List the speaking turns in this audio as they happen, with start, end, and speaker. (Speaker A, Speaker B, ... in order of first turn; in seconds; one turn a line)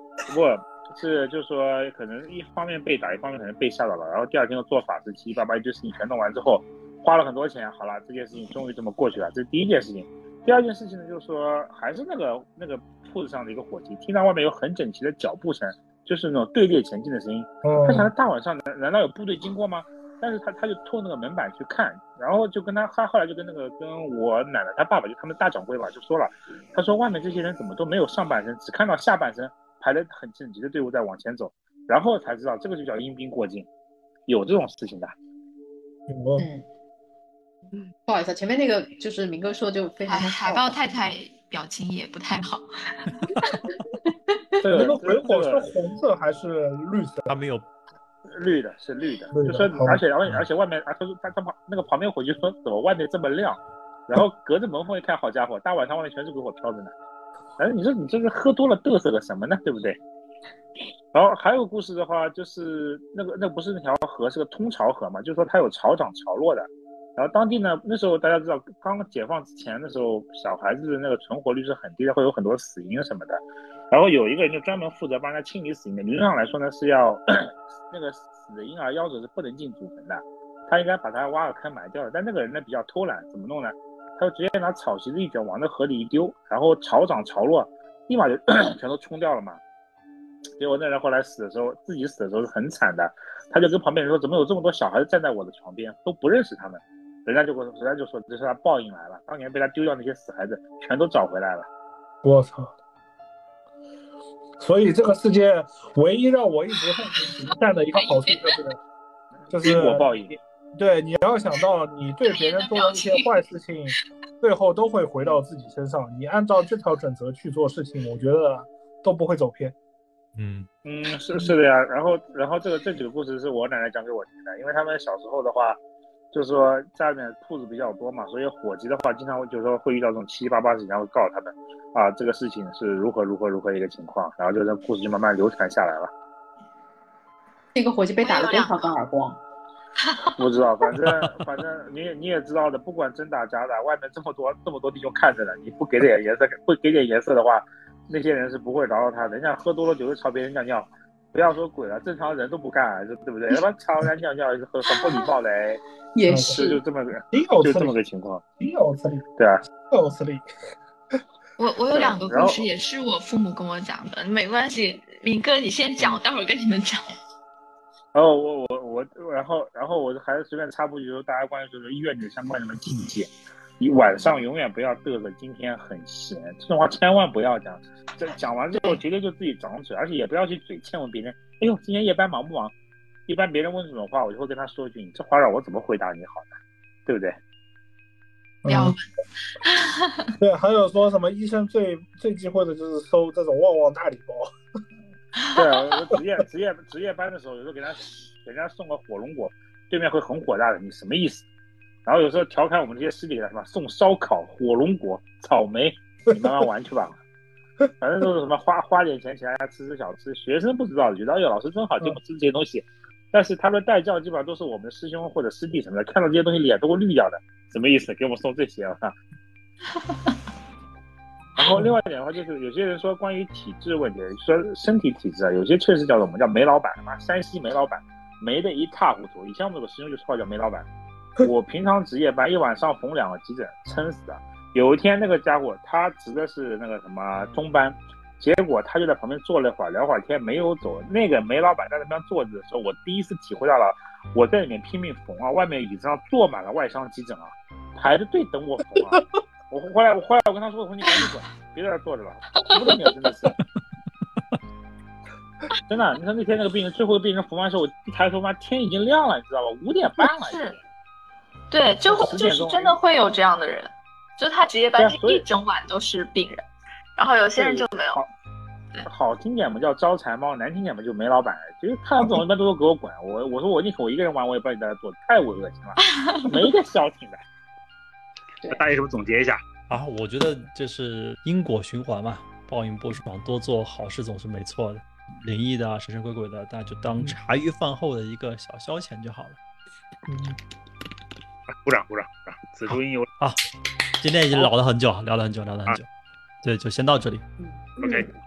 Speaker A: 0.3-33.7
Speaker B: 17.6-18.1
Speaker A: 34.3-35.1
Speaker B: 36.1-36.5
Speaker C: 36.4-36.6
Speaker C: 38.1-40.8
Speaker D: 40.1-43.2
Speaker A: 44.6-45.6
Speaker B: 44.7-47.3
Speaker E: 47.3-47.6
Speaker A: 48.3-56.9
Speaker B: 49.3-50.0
Speaker A: 57.6-60.0
Speaker A: 61.1-89.6
Speaker A: 90.6-101.7
Speaker B: 102.2-102.7
Speaker B: 104.6-108.8
Speaker D: 108.0-108.6
Speaker A: 109.5-110.4
Speaker B: 109.5-110.1
Speaker B: 110.8-119.7
Speaker D: 112.3-113.3
Speaker E: 120.4-120.7
Speaker A: 120.8-125.8
Speaker A: 126.3-136.1
Speaker C: 137.7-139.4
Speaker D: 138.2-138.7
Speaker D: 140.0-140.3
Speaker A: 140.4-155.8
Speaker C: 156.1-156.8
Speaker B: 156.3-156.6
Speaker A: 156.5-158.4
Speaker B: 157.3-158.0
Speaker B: 158.6-159.2
Speaker A: 159.4-159.6
Speaker B: 159.9-160.5
Speaker D: 161.6-167.1
Speaker A: 161.9-162.6
Speaker A: 168.1-182.7
Speaker A: 183.3-186.5
Speaker A: 187.1-187.4
Speaker B: 188.6-189.0
Speaker D: 188.7-189.1
Speaker D: 189.6-190.3
Speaker B: 190.4-194.5
Speaker D: 195.4-195.7
Speaker A: 195.5-201.4
Speaker A: 202.1-207.2
Speaker A: 208.0-219.2
Speaker A: 221.6-230.9
Speaker A: 231.4-253.5
Speaker D: 252.6-253.1
Speaker A: 255.9-260.8
Speaker D: 260.2-260.8
Speaker D: 261.7-266.6
Speaker A: 262.1-263.0
Speaker A: 265.0-265.4
Speaker D: 267.2-268.2
Speaker A: 267.6-268.3
Speaker A: 269.1-277.4
Speaker D: 276.0-276.7
Speaker A: 278.6-279.6
Speaker E: 279.9-289.6
Speaker A: 291.8-293.3
Speaker E: 292.9-293.6
Speaker E: 294.2-296.1
Speaker E: 296.6-297.4
Speaker C: 297.6-298.2
Speaker A: 298.0-298.3